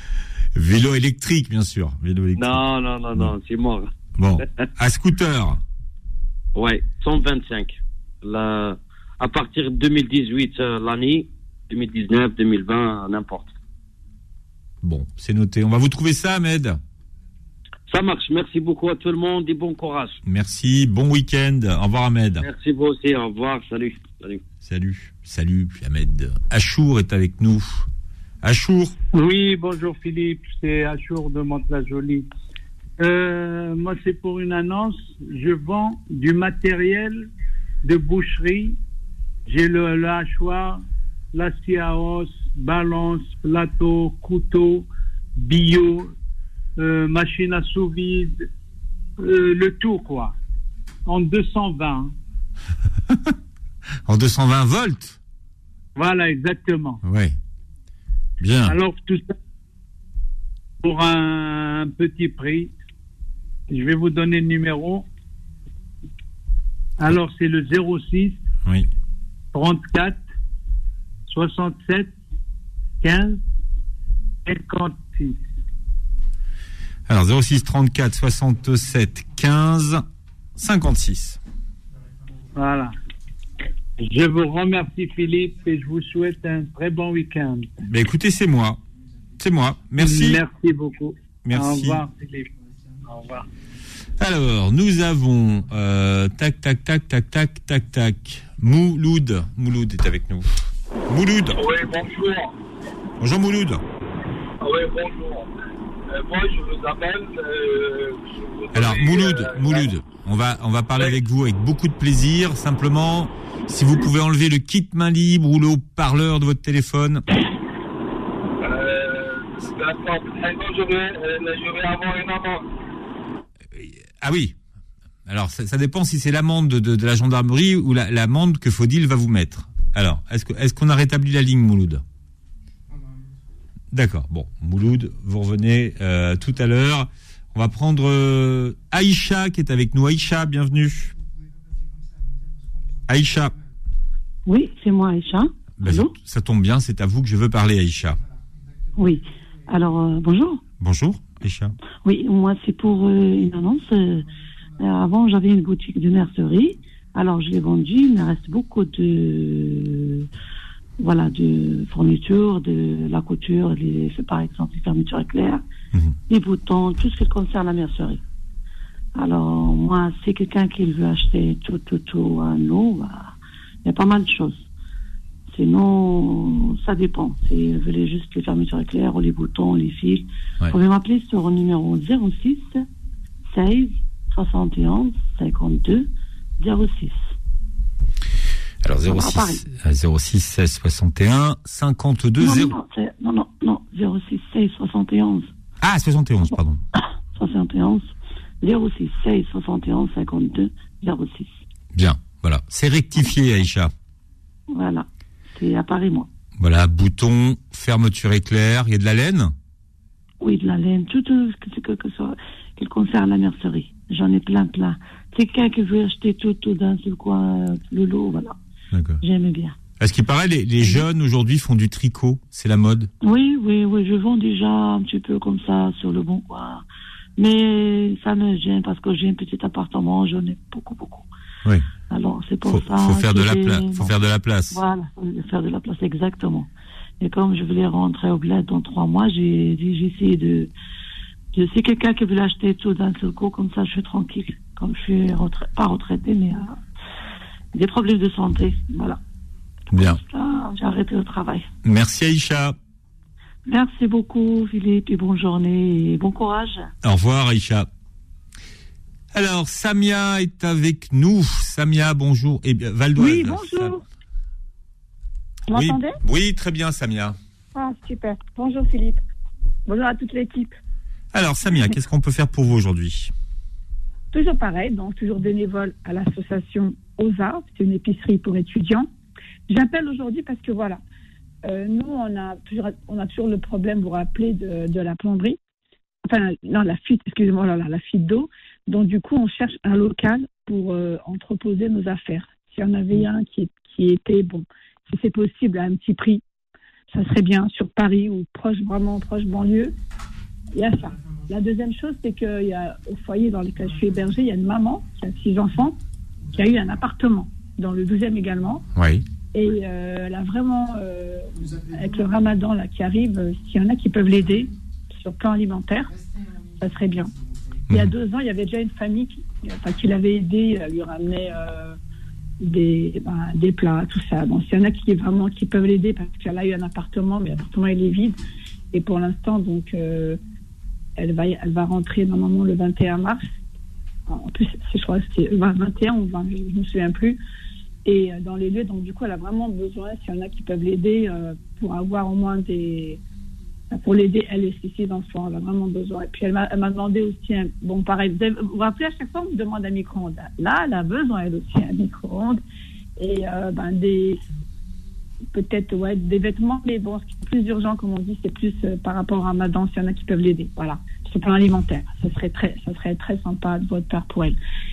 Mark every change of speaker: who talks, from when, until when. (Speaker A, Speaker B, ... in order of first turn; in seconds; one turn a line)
Speaker A: 0.6-2.6
Speaker B: 2.4-3.9
Speaker A: 4.2-5.6
Speaker B: 6.5-13.5
Speaker A: 14.8-16.8
Speaker B: 17.9-20.2
Speaker A: 20.3-22.5
Speaker B: 22.4-24.4
Speaker A: 24.6-27.9
Speaker A: 28.4-28.9
Speaker C: 29.1-32.3
Speaker C: 33.0-37.3
Speaker C: 37.8-38.8
Speaker C: 39.5-46.1
Speaker C: 46.8-48.5
Speaker C: 49.2-50.4
Speaker C: 51.1-52.1
Speaker A: 54.1-55.2
Speaker C: 56.0-57.0
Speaker A: 57.0-57.4
Speaker A: 58.4-58.8
Speaker C: 58.7-59.4
Speaker C: 60.8-62.7
Speaker C: 63.7-65.1
Speaker C: 67.0-68.4
Speaker C: 69.5-70.2
Speaker C: 71.3-72.1
Speaker C: 73.0-73.4
Speaker C: 74.5-75.4
Speaker A: 77.1-80.0
Speaker A: 80.6-81.4
Speaker C: 82.5-82.9
Speaker C: 84.0-87.7
Speaker A: 87.8-88.8
Speaker A: 89.4-90.4
Speaker C: 90.0-92.5
Speaker A: 91.5-92.0
Speaker C: 93.0-93.5
Speaker A: 94.2-101.6
Speaker D: 101.7-102.4
Speaker A: 103.2-103.8
Speaker D: 104.7-105.4
Speaker D: 106.2-108.2
Speaker A: 108.7-117.2
Speaker D: 108.8-109.3
Speaker D: 118.7-119.3
Speaker D: 119.8-122.6
Speaker A: 123.8-124.5
Speaker A: 125.3-132.0
Speaker A: 133.9-141.1
Speaker A: 143.1-143.5
Speaker E: 144.5-146.2
Speaker A: 145.8-148.2
Speaker E: 149.0-150.6
Speaker A: 150.8-151.8
Speaker E: 152.0-154.3
Speaker E: 154.8-160.3
Speaker E: 161.0-165.6
Speaker E: 166.3-168.2
Speaker E: 169.2-174.7
Speaker E: 175.5-182.8
Speaker E: 183.5-187.3
Speaker A: 188.8-192.8
Speaker E: 189.1-189.7
Speaker E: 192.4-195.5
Speaker A: 195.8-196.8
Speaker E: 197.3-201.6
Speaker A: 201.9-203.9
Speaker E: 204.7-206.3
Speaker A: 206.6-209.5
Speaker E: 210.4-218.6
Speaker A: 218.9-219.2
Speaker E: 219.2-219.8
Speaker A: 220.0-223.1
Speaker E: 223.2-226.8
Speaker E: 227.4-231.3
Speaker E: 232.1-236.7
Speaker A: 232.7-234.8
Speaker E: 237.2-240.7
Speaker E: 241.5-246.8
Speaker E: 247.7-249.2
Speaker A: 249.9-250.2
Speaker E: 249.9-251.7
Speaker A: 251.8-252.8
Speaker E: 253.7-256.9
Speaker A: 257.0-257.9
Speaker A: 259.3-264.0
Speaker F: 263.2-264.0
Speaker F: 265.7-266.2
Speaker A: 265.7-267.4
Speaker F: 267.8-269.2
Speaker F: 269.9-270.8
Speaker A: 271.3-273.3
Speaker F: 274.3-279.1
Speaker F: 279.7-281.0
Speaker F: 281.6-285.6
Speaker F: 286.2-296.4
Speaker F: 297.1-299.9
Speaker F: 300.7-306.0
Speaker F: 306.5-308.9
Speaker A: 308.9-309.2
Speaker F: 309.5-316.2
Speaker F: 316.8-317.3
Speaker F: 317.9-322.0
Speaker F: 322.6-328.4
Speaker F: 328.9-330.4
Speaker F: 331.2-333.4
Speaker F: 334.3-337.4
Speaker F: 338.1-343.2
Speaker F: 343.9-352.6
Speaker F: 353.2-354.4
Speaker F: 355.5-364.6